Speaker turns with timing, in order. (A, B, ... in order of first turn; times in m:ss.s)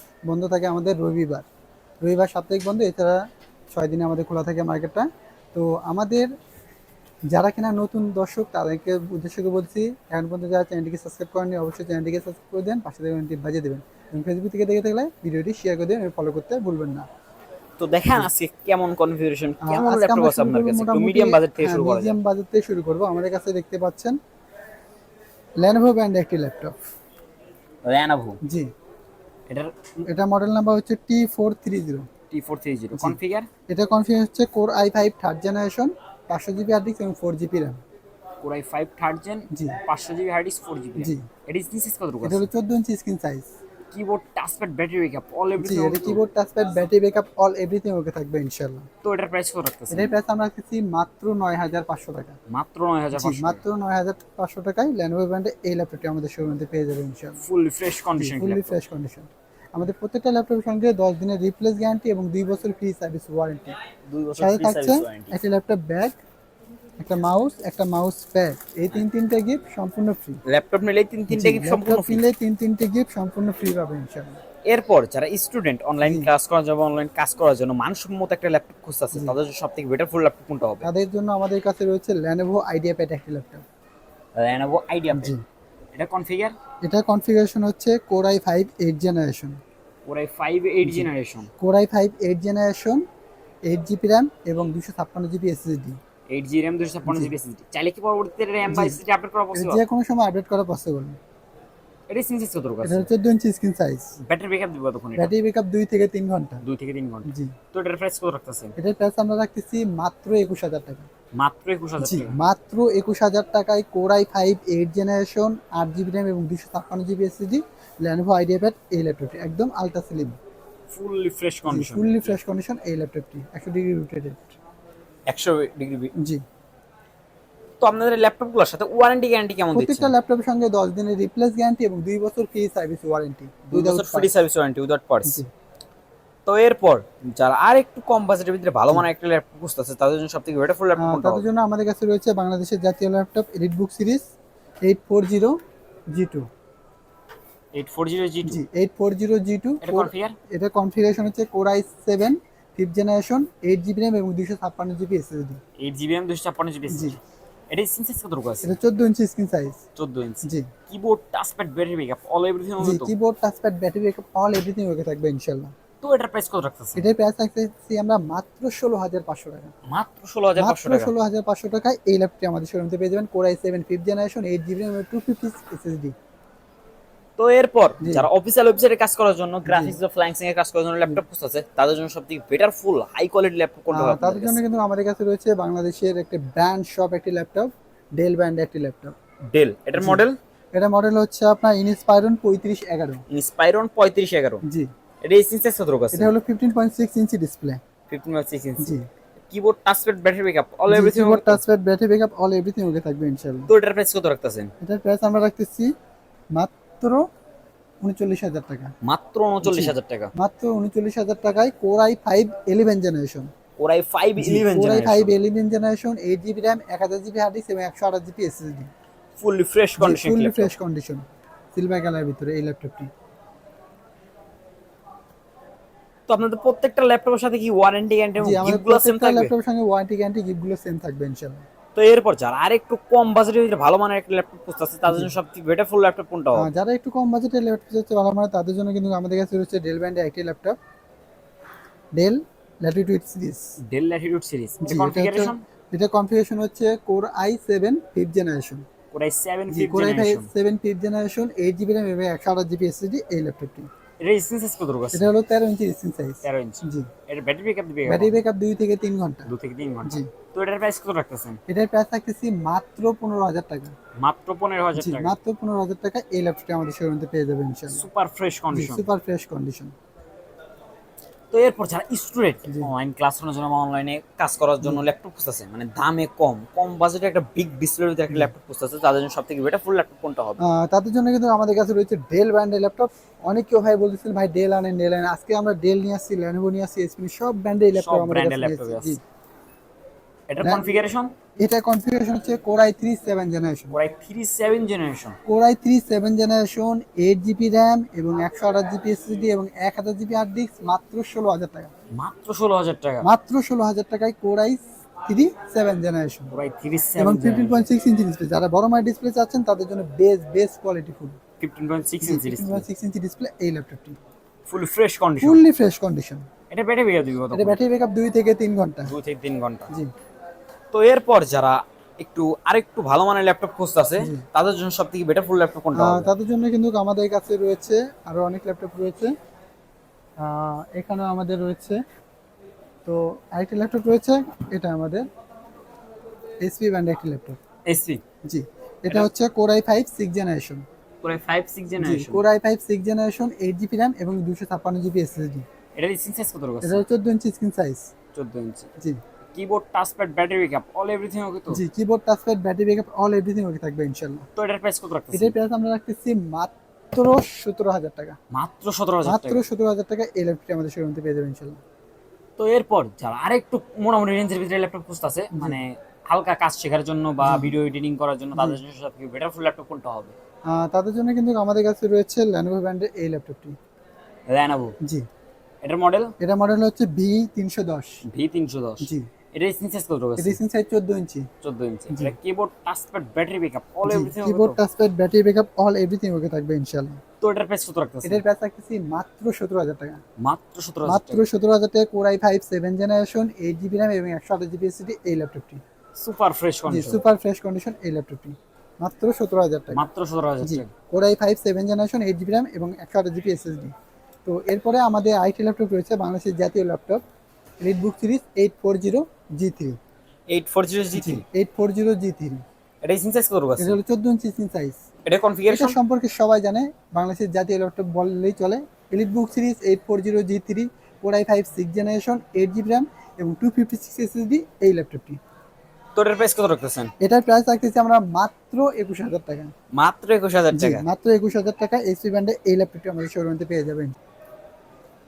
0:00.3-0:01.4 A
0:02.0-0:03.2 A
0:03.7-0:06.3 A
0:07.3-0:17.1 A
0:17.8-0:22.2 B
0:19.6-0:24.2 A
0:25.6-0:26.8 A
0:27.8-0:28.4 B
0:28.4-0:28.7 A
0:29.5-0:29.9 B
0:30.1-0:32.1 A
0:32.3-0:33.5 B
0:33.7-0:37.8 A
0:38.4-0:42.5 B
0:39.5-0:39.8 A
0:41.0-0:41.3 A
0:42.2-0:43.5 A
0:43.9-0:46.2 B
0:45.6-0:48.9 A
0:49.0-0:50.1 B
0:49.9-0:52.4 A
0:52.5-0:53.6 B
0:53.1-0:57.4 A
0:57.4-0:58.8 B
0:58.2-1:03.8 A
1:04.1-1:05.4 B
1:04.4-1:06.2 A
1:07.0-1:10.4 A
1:10.5-1:12.2 B
1:11.3-1:14.4 A
1:14.7-1:20.9 B
1:16.0-1:16.3 A
1:20.8-1:23.6 A
1:24.4-1:25.3 B
1:25.1-1:25.4 A
1:25.9-1:26.6 B
1:26.8-1:29.6 A
1:30.1-1:31.5 B
1:30.8-1:33.0 A
1:33.7-1:36.0 A
1:36.3-1:39.8 B
1:37.0-1:37.3 A
1:38.7-1:39.0 A
1:39.5-1:41.2 A
1:42.1-1:43.1 B
1:42.8-1:44.1 A
1:44.2-1:45.3 B
1:45.2-1:46.6 A
1:46.6-1:48.7 B
1:47.3-1:47.6 A
1:48.8-1:51.1 A
1:51.4-1:52.4 B
1:52.0-2:00.4 A
2:00.9-2:02.4 B
2:01.6-2:04.6 A
2:05.3-2:06.1 B
2:06.2-2:06.4 A
2:07.8-2:10.1 B
2:09.7-2:14.3 A
2:13.7-2:15.4 B
2:16.5-2:21.5 B
2:21.0-2:24.2 A
2:24.8-2:25.6 A
2:26.1-2:26.5 A
2:27.7-2:28.6 B
2:28.5-2:35.6 A
2:29.8-2:30.4 B
2:35.8-2:37.2 B
2:36.9-2:37.2 A
2:37.7-2:38.8 B
2:38.6-2:39.8 A
2:40.0-2:43.1 B
2:40.4-2:40.7 A
2:42.8-2:45.7 A
2:46.0-2:47.1 B
2:47.0-2:49.7 A
2:49.9-2:51.1 B
2:50.6-2:56.2 A
2:57.4-3:04.6 B
2:58.0-2:58.3 A
2:59.7-3:00.0 A
3:03.9-3:09.2 A
3:09.5-3:10.4 B
3:10.0-3:13.2 A
3:13.3-3:14.6 B
3:15.2-3:16.3 B
3:16.1-3:17.8 A
3:18.1-3:19.0 B
3:18.8-3:19.0 A
3:19.5-3:21.6 B
3:20.9-3:23.7 A
3:23.7-3:24.7 B
3:24.8-3:25.9 A
3:26.6-3:27.2 A
3:28.0-3:28.9 A
3:29.0-3:30.3 B
3:29.6-3:33.5 A
3:33.8-3:35.4 B
3:34.4-3:38.9 A
3:39.4-3:40.8 B
3:40.0-3:43.1 A
3:46.3-3:49.5 B
3:48.4-3:51.6 A
3:52.0-3:56.7 B
3:55.1-3:55.3 A
3:56.6-4:00.8 A
4:02.2-4:03.6 A
4:03.9-4:05.6 B
4:04.8-4:08.8 A
4:09.1-4:10.5 B
4:09.7-4:13.9 A
4:14.2-4:15.3 B
4:15.1-4:17.1 A
4:16.4-4:18.4 B
4:18.1-4:19.5 A
4:19.5-4:21.6 B
4:20.0-4:20.3 A
4:21.7-4:23.9 A
4:24.2-4:25.4 B
4:25.0-4:28.1 A
4:27.9-4:29.1 B
4:28.7-4:29.9 A
4:31.5-4:40.6 B
4:40.6-4:49.2 A
4:48.0-4:49.2 B
4:50.5-4:51.3 B
4:50.6-4:50.9 A
4:51.6-4:54.0 A
4:53.9-4:55.4 B
4:55.5-5:01.9 A
5:02.1-5:03.3 B
5:03.2-5:06.6 A
5:06.5-5:07.9 B
5:07.2-5:11.4 A
5:11.6-5:12.9 B
5:12.2-5:14.2 A
5:14.7-5:15.6 B
5:15.4-5:16.5 A
5:16.7-5:17.8 B
5:17.5-5:19.1 A
5:19.1-5:19.9 B
5:20.9-5:26.3 B
5:24.2-5:24.4 A
5:26.0-5:29.3 A
5:30.4-5:32.0 A
5:33.0-5:35.3 A
5:36.6-5:37.6 A
5:37.9-5:38.2 B
5:38.4-5:40.8 A
5:41.2-5:42.4 B
5:42.0-5:45.7 A
5:46.0-5:47.0 B
5:46.8-5:48.1 A
5:48.3-5:48.9 B
5:49.5-5:51.8 B
5:51.7-5:54.5 A
5:54.6-5:55.6 B
5:55.3-5:58.4 A
5:58.5-5:59.6 B
5:59.2-6:01.8 A
6:02.6-6:10.3 B
6:05.6-6:05.8 A
6:07.4-6:07.8 A
6:10.7-6:13.8 A
6:14.5-6:14.9 B
6:15.8-6:16.3 B
6:16.4-6:18.2 A
6:18.3-6:20.6 B
6:19.0-6:19.3 A
6:20.4-6:21.5 A
6:21.6-6:24.8 B
6:22.1-6:22.4 A
6:24.0-6:27.2 A
6:27.4-6:28.4 B
6:28.2-6:30.2 A
6:30.4-6:31.5 B
6:31.1-6:35.8 A
6:36.2-6:37.2 B
6:36.9-6:40.0 A
6:39.9-6:40.9 B
6:40.6-6:43.9 A
6:44.4-6:47.2 A
6:47.8-6:50.0 A
6:50.5-6:51.4 B
6:51.2-6:52.6 A
6:53.0-6:54.0 B
6:53.8-6:55.0 A
6:55.3-6:56.0 B
6:55.7-7:05.4 A
7:06.2-7:07.1 B
7:07.2-7:09.7 A
7:09.9-7:11.0 B
7:10.7-7:14.2 A